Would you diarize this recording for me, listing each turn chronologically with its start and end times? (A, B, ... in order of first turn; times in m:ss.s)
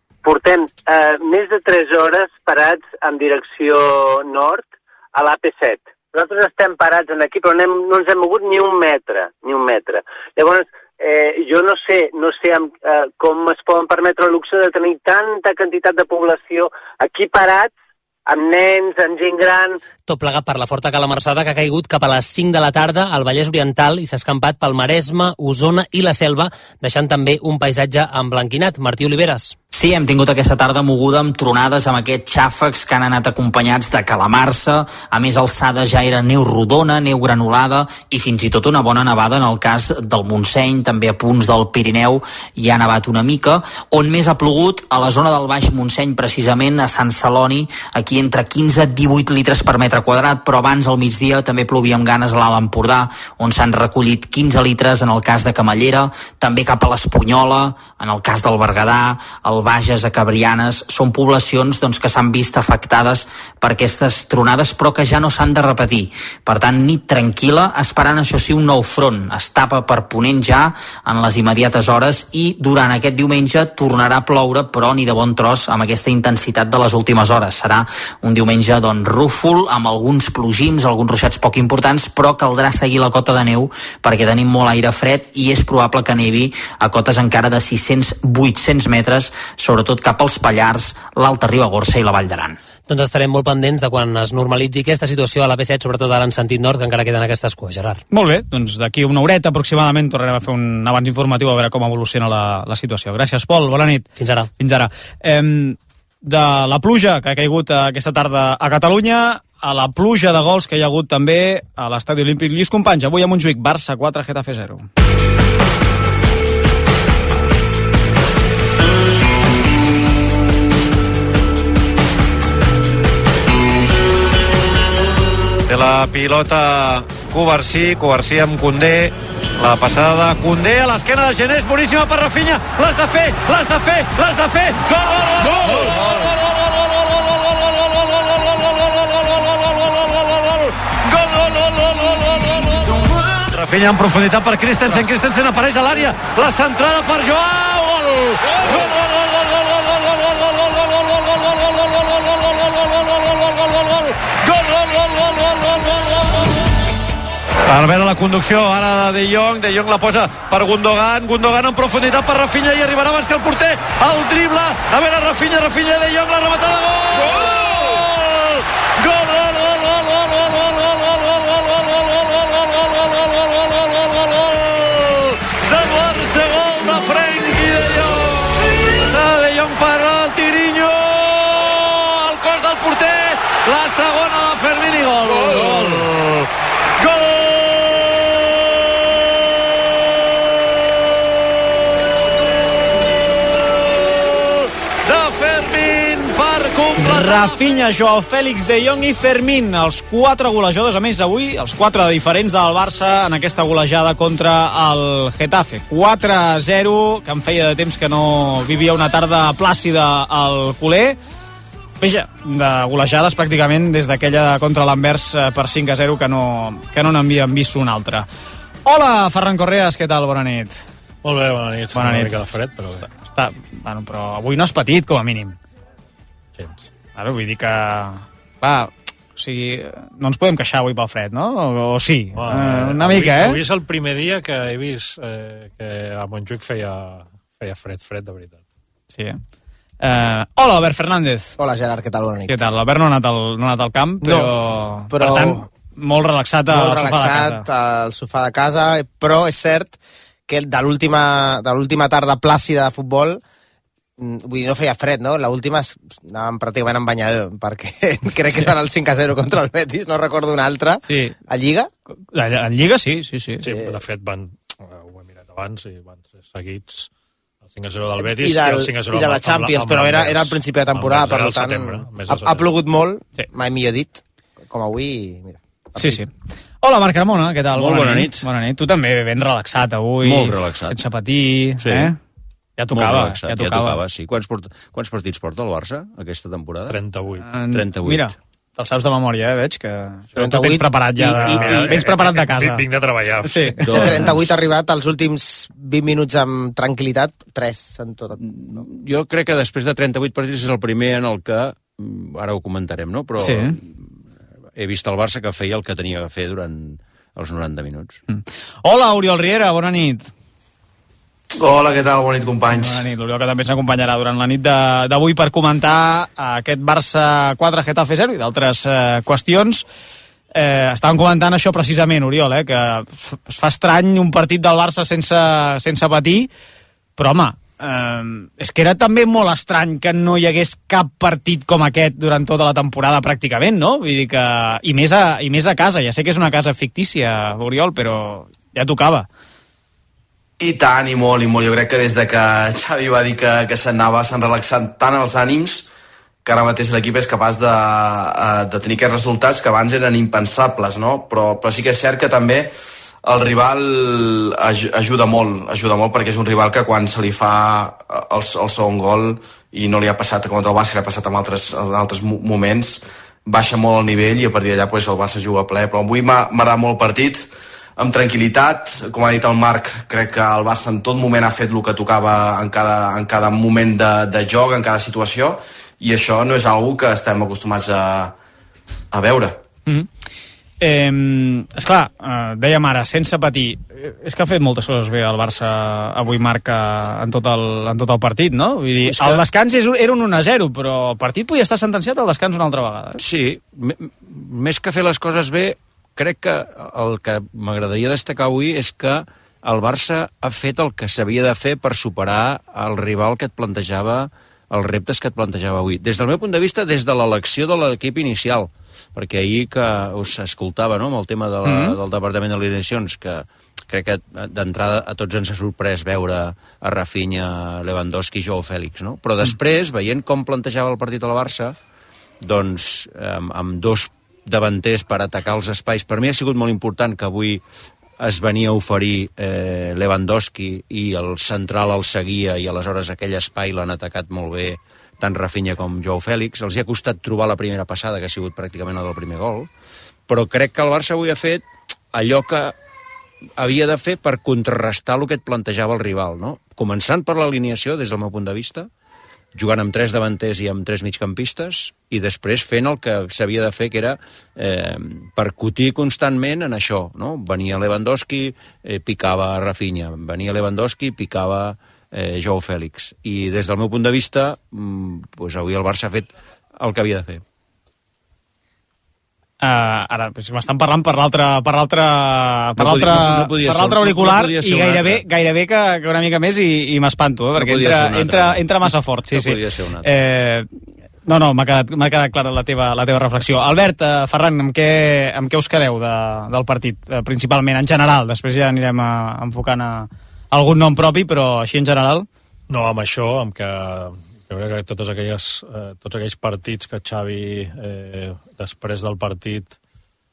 0:00.2-0:17.7 A
0:18.3-0:19.8 A
0:20.1-0:29.6 B
0:29.7-1:32.6 C
1:32.9-1:38.0 B
1:38.1-1:44.1 D
1:44.2-1:44.5 B
1:44.6-1:54.9 D
2:05.7-2:36.5 E
2:37.7-3:06.5 E
3:07.0-3:09.9 E
3:13.9-3:17.6 E
3:17.0-3:31.2 D
3:32.0-3:38.3 D
3:38.9-3:40.8 D
3:41.2-3:43.1 F
3:41.9-3:42.4 D
3:43.0-3:45.6 D
3:46.6-3:46.8 F
3:47.2-3:53.6 D
3:52.3-3:58.6 F
3:59.1-3:59.4 D
4:00.0-4:01.6 D
4:01.6-4:02.6 G
4:02.5-4:07.6 D
4:04.2-4:04.5 G
4:05.1-4:05.7 G
4:06.7-4:10.0 G
4:10.5-4:13.4 G
4:14.2-4:21.9 G
4:21.1-4:21.4 D
4:22.3-4:23.6 D
4:23.6-4:27.1 F
4:23.7-4:24.0 G
4:27.7-4:32.7 F
4:28.2-4:36.2 G
4:36.0-4:36.3 D
4:36.8-4:42.2 D
4:37.7-4:38.5 H
4:40.2-4:41.0 H
4:41.8-4:42.1 H
4:42.8-4:44.0 D
4:42.9-4:47.0 H
4:46.9-4:47.5 F
4:47.5-4:52.8 D
4:47.7-4:48.3 H
4:50.4-4:52.0 G
4:51.4-4:54.4 F
4:53.4-4:54.2 D
4:53.9-4:58.6 G
4:54.0-4:54.2 H
4:58.4-5:04.1 H
5:03.4-5:03.8 D
5:04.8-5:08.2 H
5:08.3-5:10.3 D
5:11.6-5:13.0 I
5:12.8-5:19.8 D
5:20.5-5:26.5 D
5:27.2-5:39.3 D
5:40.6-5:45.9 I
5:46.4-5:52.7 I
5:53.2-6:18.3 I
6:19.1-6:19.6 I
6:20.8-6:33.2 D
6:29.1-6:29.4 H
6:33.2-7:01.8 H
6:51.6-6:52.0 D
7:02.4-7:07.6 H
7:08.2-7:19.7 H
7:20.3-7:22.8 H
7:23.6-7:28.9 H
7:29.5-7:47.4 H
7:49.6-8:00.7 D
7:52.8-7:55.2 H
7:57.6-8:00.1 H
8:01.3-8:12.3 D
8:12.7-8:19.8 F